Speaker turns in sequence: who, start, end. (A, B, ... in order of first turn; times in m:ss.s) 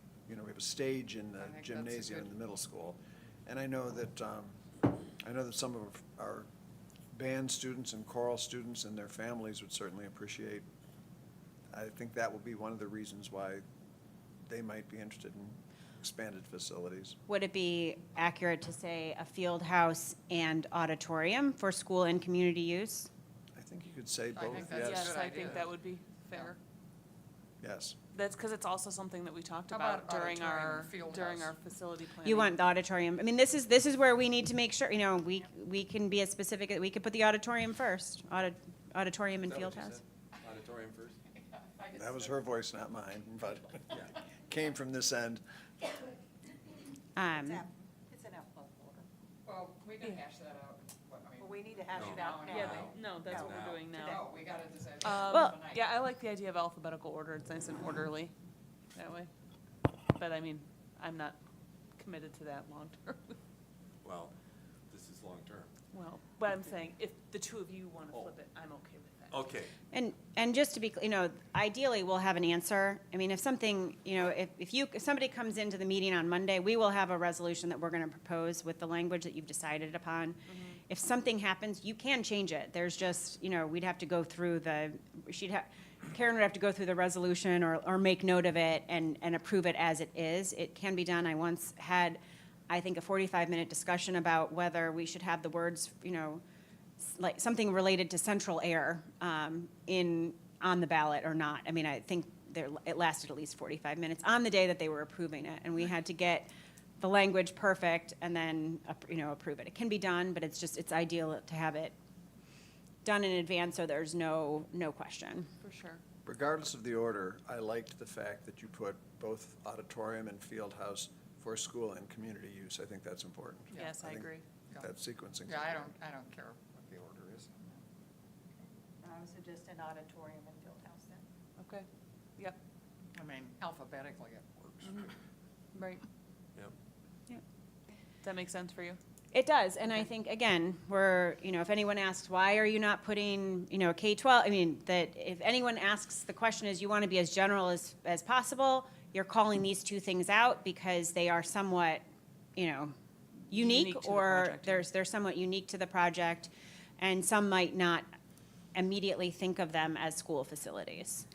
0:00.3-0:04.6 A
0:01.4-0:02.4 B
0:05.2-0:06.5 A
0:07.1-0:10.7 A
0:11.7-0:13.6 A
0:14.4-0:17.2 A
0:17.3-0:23.1 C
0:23.6-0:25.2 A
0:24.4-0:25.7 B
0:24.7-0:26.6 D
0:27.6-0:28.0 A
0:28.1-0:32.6 D
0:29.7-0:31.6 B
0:32.2-0:40.0 C
0:39.4-0:41.2 E
0:41.4-0:42.4 B
0:42.0-0:45.4 A
0:47.2-0:47.6 C
0:47.3-0:49.1 F
0:49.4-0:53.0 B
0:51.4-0:54.3 F
0:52.0-0:53.9 E
0:52.4-0:54.3 D
0:54.0-0:55.8 B
0:55.0-0:58.3 D
0:55.3-0:55.6 C
0:58.9-0:59.3 D
1:00.1-1:01.4 D
1:02.0-1:03.4 D
1:04.0-1:04.3 E
1:04.9-1:05.7 E
1:05.9-1:09.5 D
1:09.3-1:09.7 E
1:09.9-1:36.4 C
1:20.5-1:20.8 D
1:37.0-1:52.0 C
1:53.0-1:55.5 C
1:55.6-1:56.0 D
1:56.2-2:05.9 A
2:03.8-2:04.4 D
2:05.5-2:07.8 B
2:09.0-2:11.2 F
2:11.6-2:12.6 D
2:13.2-2:15.0 B
2:14.8-2:15.1 D
2:15.7-2:16.0 D
2:18.2-2:19.0 D
2:19.3-2:32.0 C
2:32.6-2:32.9 C
2:33.5-2:38.1 C
2:33.5-2:34.9 D
2:38.8-2:41.2 C